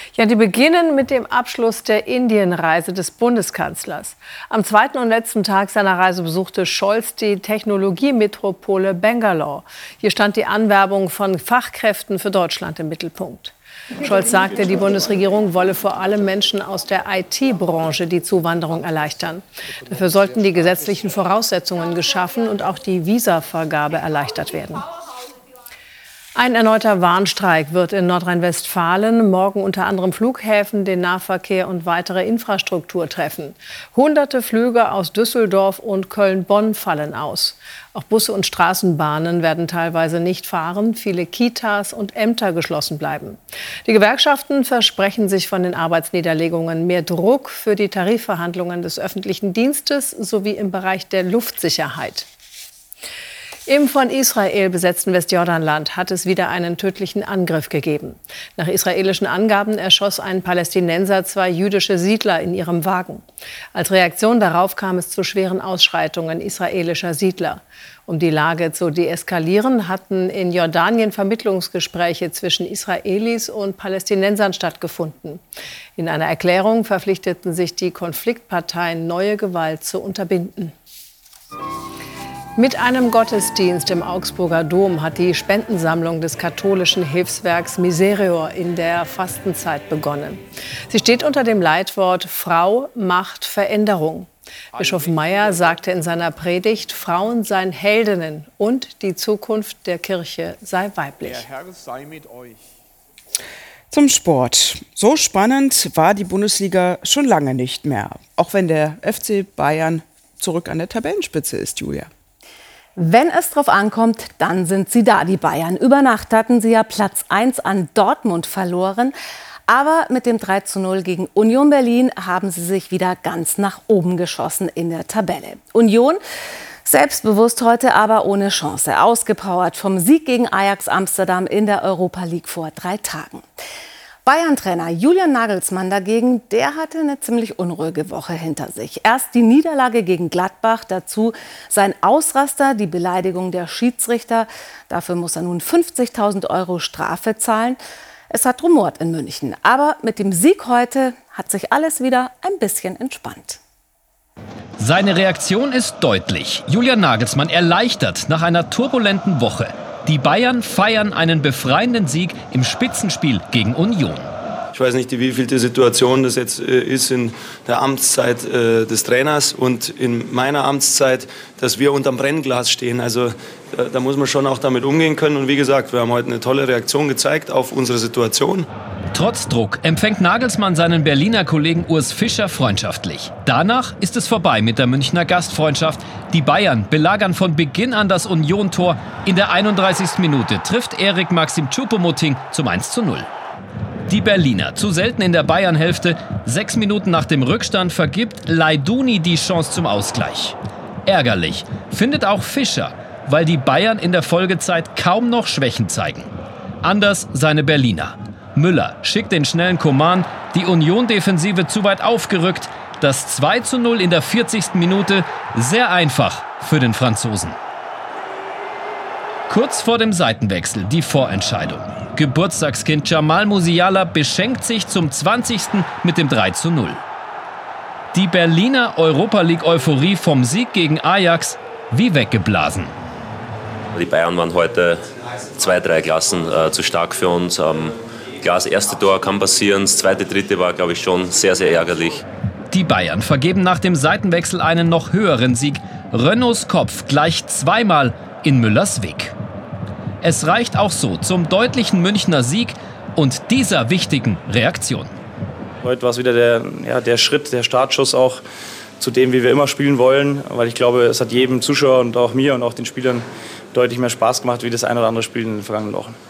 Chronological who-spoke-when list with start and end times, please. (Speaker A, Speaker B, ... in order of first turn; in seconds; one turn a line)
Speaker A: 0.1-24.8
Speaker A: 26.3-52.2
Speaker A: 53.7-63.2
Speaker A: 63.7-75.4
Speaker A: 76.0-80.7
Speaker A: 82.6-101.5
Speaker B: 103.9-112.1
Speaker C: 113.0-119.1
Speaker C: 119.7-126.2
Speaker C: 126.8-133.4
Speaker C: 134.2-147.8
Speaker C: 148.3-153.6
Speaker D: 154.8-164.3
Speaker E: 164.7-173.3
Speaker E: 173.9-178.6
Speaker F: 175.0-177.5
Speaker D: 179.1-193.3
Speaker D: 194.1-206.3
Speaker D: 206.8-217.6
Speaker D: 219.5-227.0
Speaker D: 228.1-232.9
Speaker G: 234.0-234.9
Speaker G: 235.6-237.8
Speaker G: 238.4-242.2
Speaker D: 242.7-249.3
Speaker D: 250.2-255.1
Speaker F: 255.8-258.4
Speaker F: 259.0-266.2